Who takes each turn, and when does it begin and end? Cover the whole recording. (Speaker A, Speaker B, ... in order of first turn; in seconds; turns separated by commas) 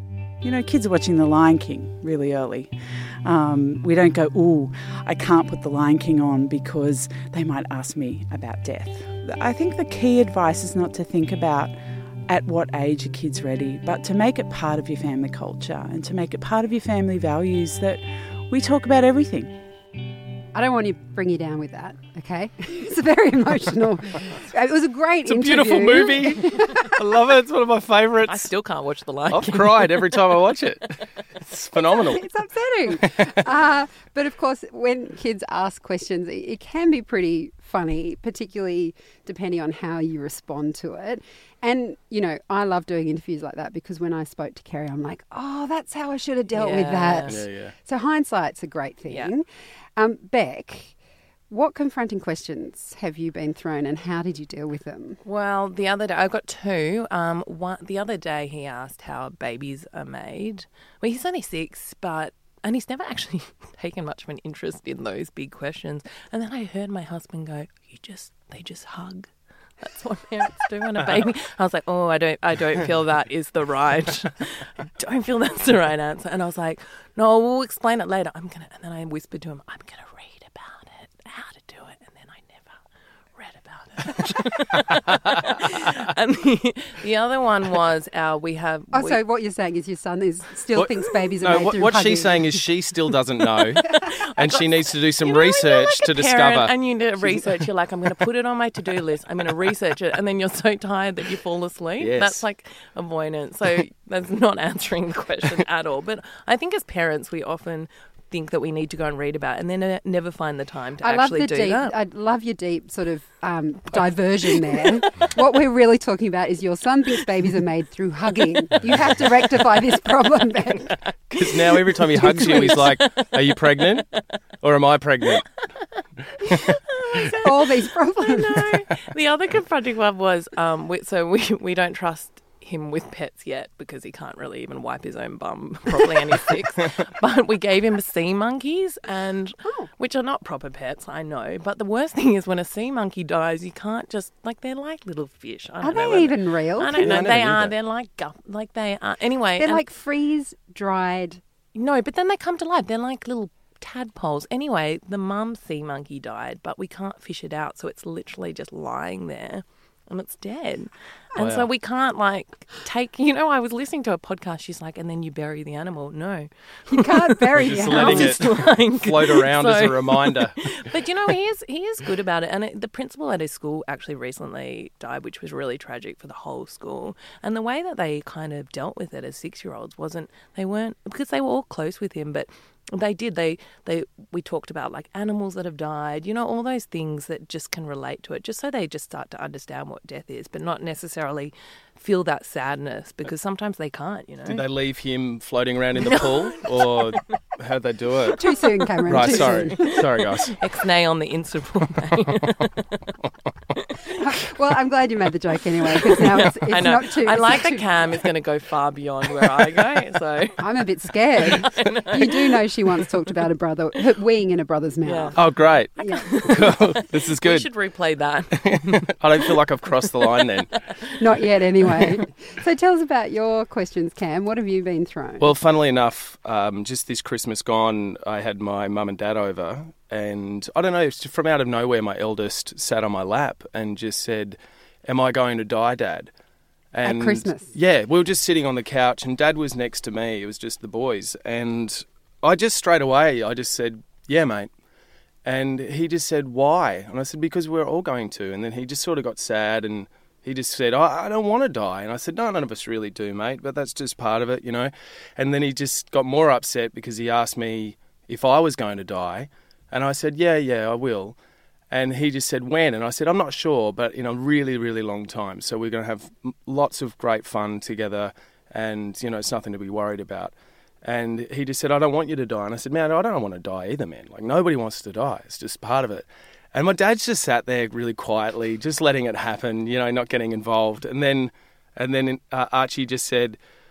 Speaker A: 0.4-19.6, Speaker B: 20.5-26.9, Speaker C: 25.2-28.5, Speaker D: 28.2-30.1, Speaker C: 29.3-32.2, Speaker B: 32.1-49.4, Speaker C: 33.0-33.3, Speaker D: 46.5-47.4, Speaker C: 47.3-47.7, Speaker B: 50.0-50.9, Speaker B: 51.5-55.2, Speaker D: 55.2-69.3, Speaker D: 69.8-82.7, Speaker D: 83.4-89.2, Speaker B: 88.9-92.5, Speaker C: 90.7-97.5, Speaker D: 94.1-111.9, Speaker C: 102.0-102.4, Speaker B: 111.0-121.0, Speaker C: 121.3-125.5, Speaker D: 122.1-123.2, Speaker B: 122.2-122.8, Speaker C: 126.5-126.7, Speaker D: 126.9-149.8, Speaker B: 127.4-128.7, Speaker B: 145.8-147.3, Speaker C: 146.9-147.7, Speaker B: 149.6-151.4, Speaker D: 151.7-194.6, Speaker C: 161.4-161.7, Speaker B: 166.9-168.4, Speaker C: 167.6-170.8, Speaker C: 194.5-198.4, Speaker D: 195.9-197.2, Speaker B: 198.3-200.0, Speaker C: 199.1-200.6, Speaker D: 199.1-199.9, Speaker D: 200.5-203.0, Speaker B: 204.2-207.9, Speaker D: 206.0-210.6, Speaker B: 210.6-215.4, Speaker D: 211.4-212.5, Speaker D: 215.0-215.4, Speaker C: 215.3-217.7, Speaker B: 216.0-216.3, Speaker D: 216.2-216.7, Speaker D: 217.4-219.1, Speaker C: 218.6-220.8, Speaker D: 220.0-220.2, Speaker B: 221.2-225.5, Speaker C: 225.4-236.3, Speaker C: 236.9-244.7, Speaker B: 237.0-237.7, Speaker C: 245.4-261.4, Speaker C: 261.9-283.6